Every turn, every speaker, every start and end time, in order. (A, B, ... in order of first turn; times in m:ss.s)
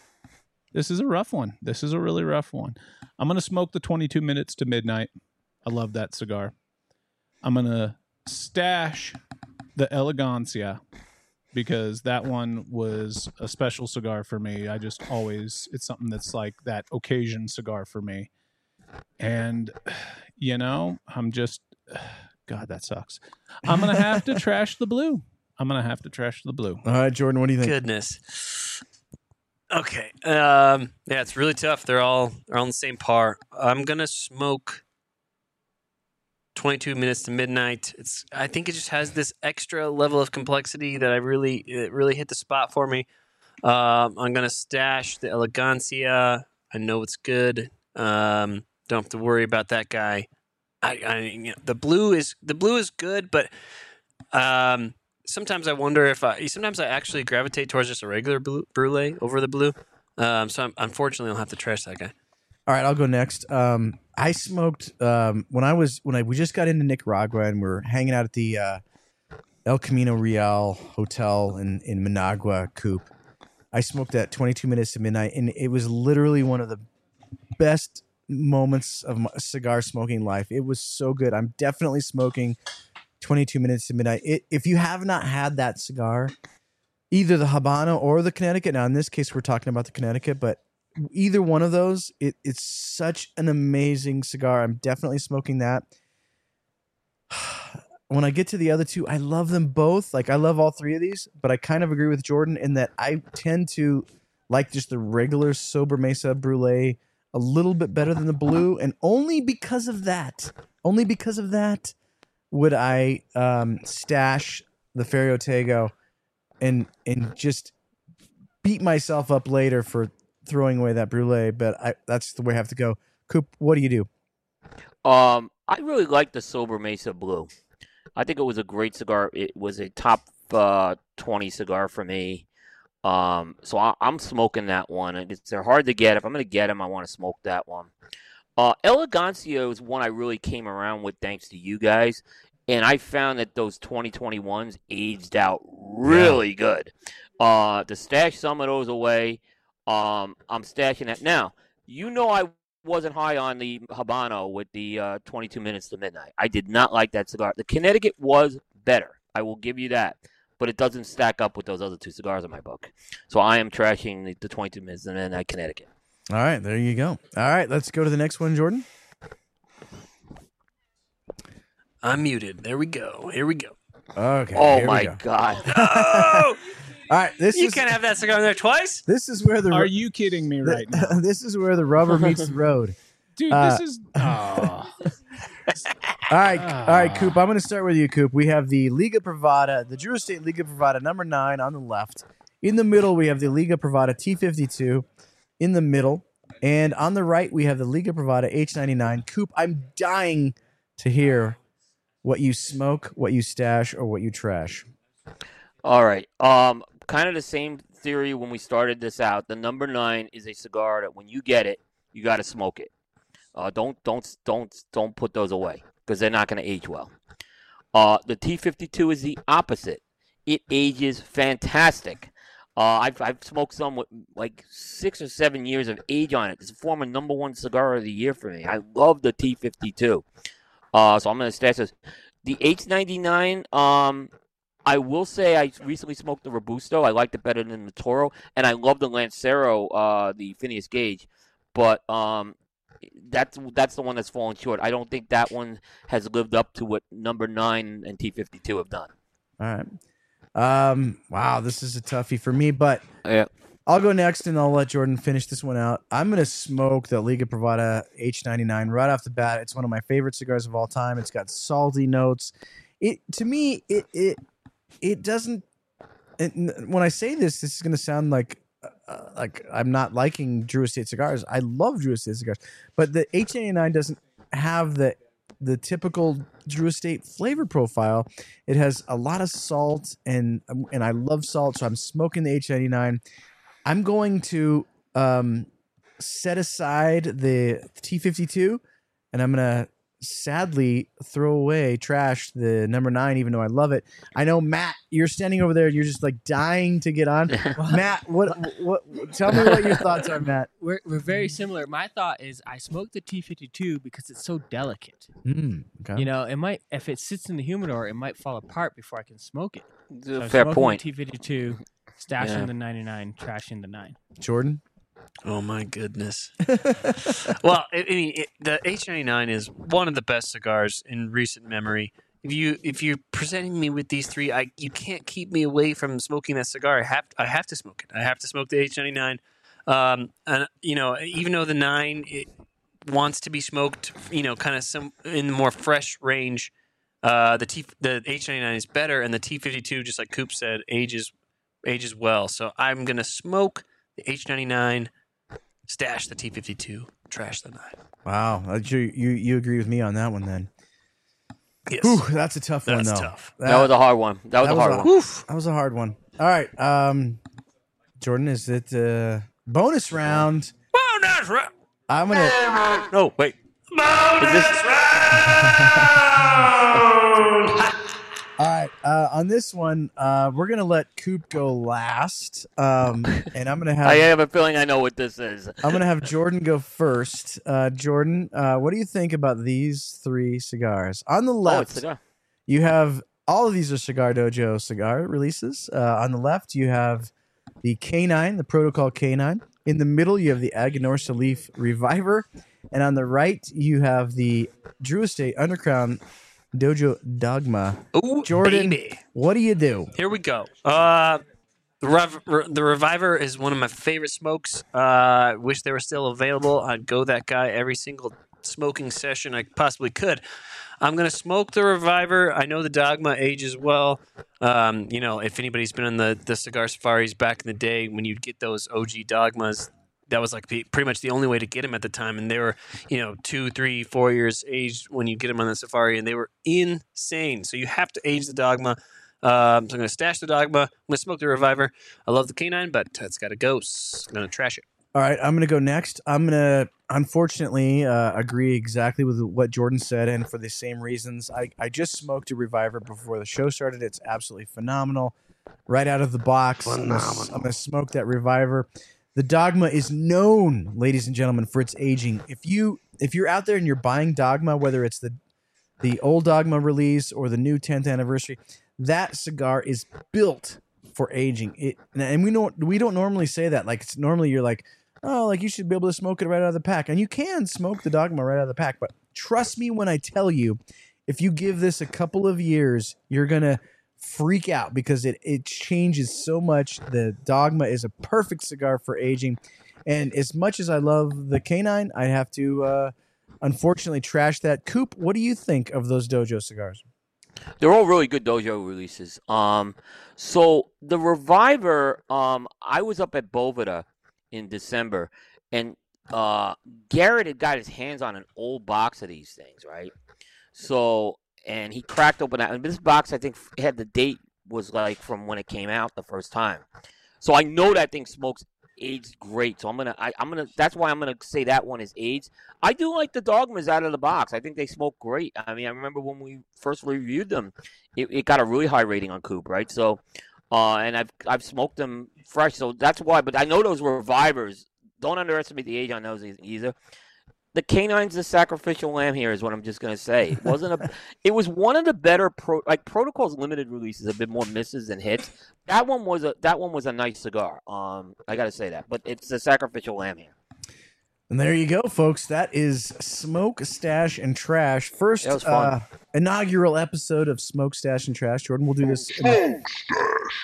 0:00.7-0:05.1 A
0:05.6-0:06.5 A
0:07.4-0:09.2 A
0:09.8-0:10.8 A
0:11.5-0:18.3 A
0:19.2-0:26.8 A
0:23.7-0:24.2 B
0:26.8-0:27.7 B
0:27.6-0:28.8 C
0:29.7-0:34.8 C
0:36.5-0:43.0 C
0:43.6-0:50.2 C
0:50.8-0:53.5 C
0:54.3-1:02.1 C
1:02.7-1:08.8 B
1:09.6-1:13.1 B
1:13.7-1:16.8 B
1:17.6-1:22.6 B
1:23.2-1:26.3 B
1:27.1-1:35.9 B
1:37.3-1:51.9 B
1:52.5-1:55.9 B
1:56.6-1:57.7 B
1:58.6-2:04.1 B
2:05.0-2:07.5 D
2:08.2-2:12.4 D
2:13.0-2:17.9 D
2:18.6-2:45.9 D
2:26.1-2:26.4 B
2:46.3-2:48.8 B
2:52.0-2:53.7 C
2:54.2-2:56.6 B
2:54.5-2:55.7 D
2:55.6-2:56.6 C
2:57.1-2:57.9 B
2:57.5-2:59.0 C
2:59.1-2:59.9 B
2:59.7-3:01.2 A
3:00.6-3:03.0 B
3:03.4-3:04.9 A
3:03.5-3:04.7 B
3:06.3-3:15.0 B
3:06.5-3:07.4 A
3:15.6-3:21.6 B
3:22.2-3:24.9 B
3:25.8-3:32.9 D
3:33.5-3:37.1 D
3:37.9-3:50.2 D
3:50.9-3:51.9 D
3:52.4-3:54.3 D
3:54.8-4:02.6 D
4:03.1-4:09.1 D
4:09.6-4:10.0 B
4:10.5-4:13.0 B
4:13.9-4:24.4 B
4:25.0-4:25.6 B
4:26.4-4:43.2 B
4:43.8-5:00.7 B
4:57.8-4:58.1 E
5:00.8-5:05.3 E
5:05.4-5:06.2 B
5:06.1-5:14.2 E
5:10.1-5:11.0 D
5:12.4-5:12.7 D
5:14.4-5:14.8 B
5:15.4-5:32.5 C
5:16.7-5:17.4 B
5:33.0-5:36.7 C
5:37.2-5:41.3 C
5:41.8-5:45.1 C
5:45.9-5:48.0 C
5:48.2-5:50.7 B
5:51.9-5:52.2 C
5:52.0-5:53.9 B
5:52.8-5:53.5 C
5:53.6-5:55.0 D
5:54.6-5:57.4 B
5:55.0-5:55.4 C
5:58.2-6:00.7 B
6:00.9-6:01.7 C
6:02.1-6:02.6 B
6:02.7-6:03.0 C
6:03.0-6:03.5 D
6:03.9-6:07.9 C
6:04.4-6:04.9 D
6:05.3-6:06.2 B
6:08.6-6:14.3 B
6:14.0-6:15.9 D
6:15.8-6:22.0 B
6:21.6-6:22.2 D
6:22.7-6:27.3 B
6:27.8-6:36.2 B
6:36.7-6:40.1 B
6:38.1-6:39.2 C
6:40.2-6:41.4 C
6:42.0-6:50.4 C
6:51.0-7:14.8 C
7:15.1-7:25.3 B
7:25.9-7:35.4 B
7:26.9-7:27.5 C
7:36.0-8:07.0 B
8:07.8-8:20.1 D
8:20.7-8:26.8 D
8:27.4-8:46.9 D
8:47.7-9:00.5 D
9:01.5-9:10.0 B
9:05.4-9:05.9 D